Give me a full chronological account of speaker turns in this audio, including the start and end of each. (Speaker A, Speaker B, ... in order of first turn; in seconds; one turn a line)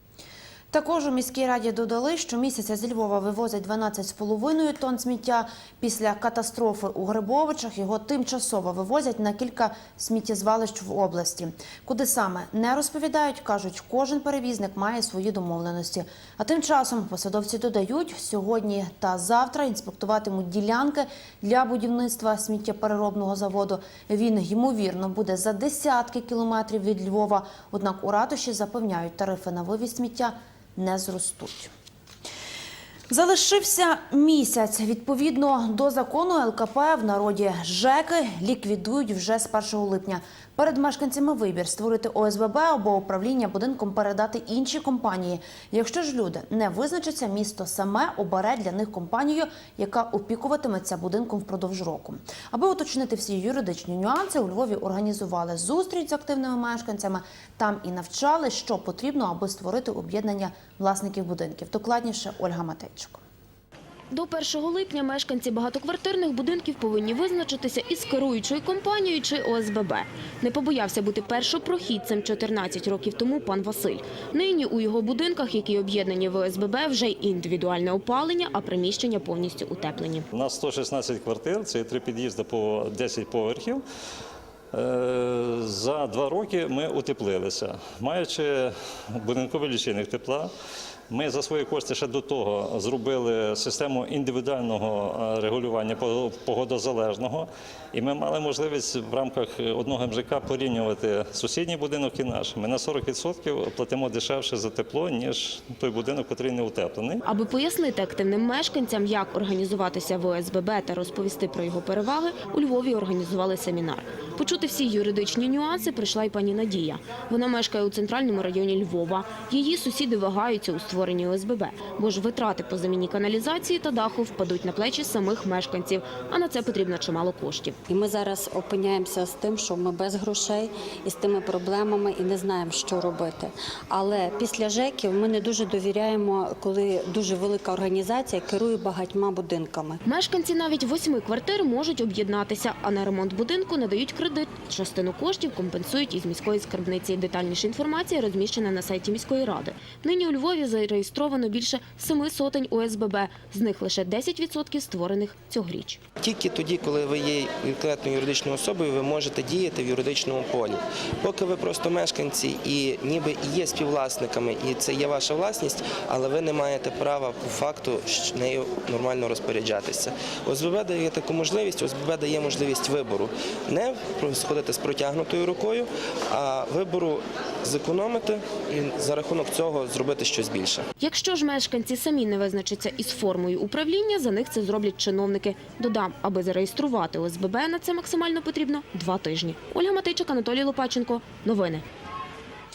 Speaker A: 0.7-31.7
Speaker A: 33.1-63.2
Speaker B: 64.1-80.3
Speaker C: 80.3-83.8
Speaker C: 84.7-90.5
Speaker C: 91.1-107.2
Speaker B: 107.2-127.8
Speaker D: 127.9-140.0
Speaker B: 140.1-156.0
Speaker E: 156.2-180.9
Speaker B: 181.0-191.8